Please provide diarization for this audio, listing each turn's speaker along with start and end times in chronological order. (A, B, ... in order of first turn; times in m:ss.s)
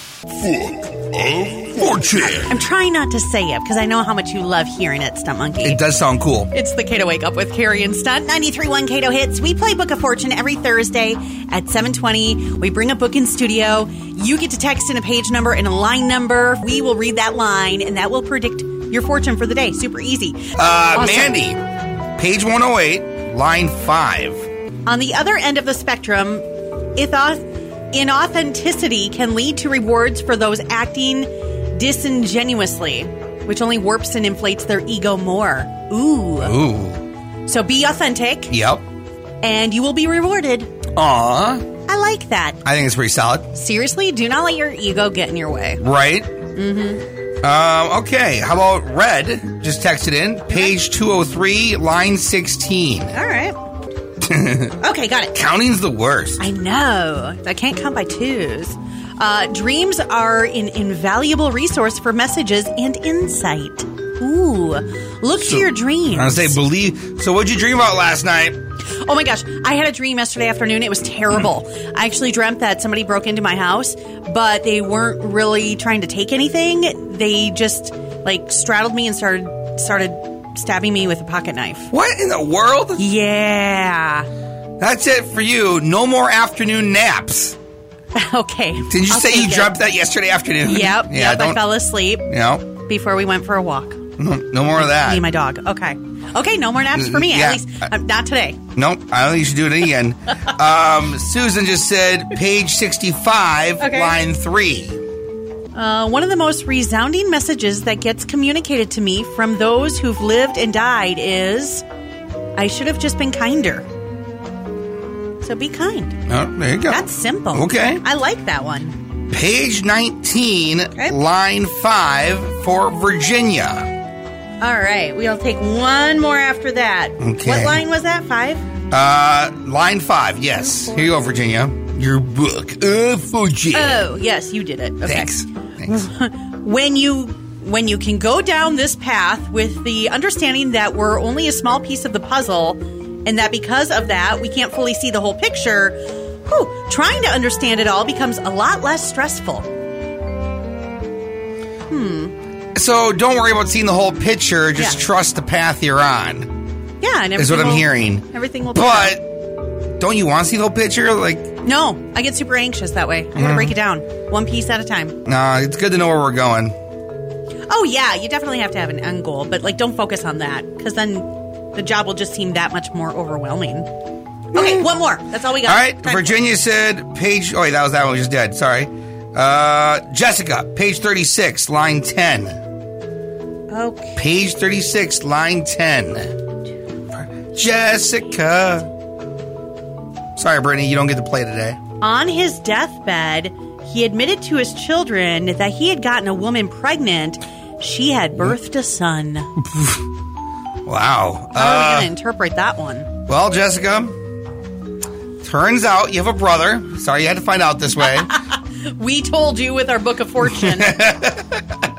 0:00.4-0:02.5 A
0:02.5-0:05.8 B
0:05.6-0:06.5 A
0:06.5-0:21.4 B
0:20.6-0:21.6 A
0:22.2-0:24.4 A
0:24.8-0:27.4 B
0:27.9-0:36.6 B
0:36.4-0:37.0 A
0:37.4-0:38.5 B
0:38.5-0:38.8 A
0:39.4-0:40.8 B
0:40.9-0:41.6 A
0:41.8-0:42.6 B
0:42.6-0:43.5 A
0:43.5-0:45.8 B
0:45.8-0:46.3 A
0:46.5-0:47.0 B
0:47.4-0:53.2 A
0:50.5-0:50.8 B
0:53.1-0:53.6 B
0:54.2-0:54.8 A
0:54.8-0:55.4 B
0:55.3-0:56.4 A
0:56.4-1:06.6 B
1:05.4-1:08.6 A
1:09.0-1:21.9 B
1:21.9-1:23.0 A
1:23.0-1:24.3 B
1:24.8-1:27.6 A
1:28.1-1:29.7 B
1:28.8-1:31.7 A
1:30.6-1:34.0 B
1:32.2-1:32.6 A
1:34.2-1:35.3 A
1:34.7-1:38.6 B
1:36.9-1:37.8 A
1:38.8-1:45.0 A
1:43.8-1:44.2 B
1:45.7-1:51.8 B
1:52.6-1:53.8 B
1:55.4-1:56.2 B
1:56.3-1:58.0 A
1:56.8-1:59.0 B
1:59.3-2:03.9 A
2:04.6-2:08.6 B
2:07.2-2:07.8 A
2:08.9-2:14.1 A
2:13.7-2:29.7 B
2:15.0-2:15.9 A
2:31.9-2:32.3 B
2:32.7-2:36.5 A
2:37.0-2:39.2 B
2:37.4-2:39.3 A
2:40.0-2:41.5 A
2:41.6-2:45.2 B
2:43.3-2:43.8 A
2:45.2-2:46.7 A
2:47.7-2:53.9 B
2:54.5-2:56.4 B
2:54.5-2:54.9 A
2:55.6-3:02.6 A
3:03.7-3:04.2 B
3:04.2-3:06.4 A
3:07.1-3:08.9 A
3:10.4-3:11.8 A
3:12.0-3:19.5 B
3:20.8-3:22.1 A
3:21.5-3:23.1 B
3:23.2-3:24.1 A
3:25.4-3:28.4 A
3:28.0-3:31.1 B
3:30.4-3:31.8 A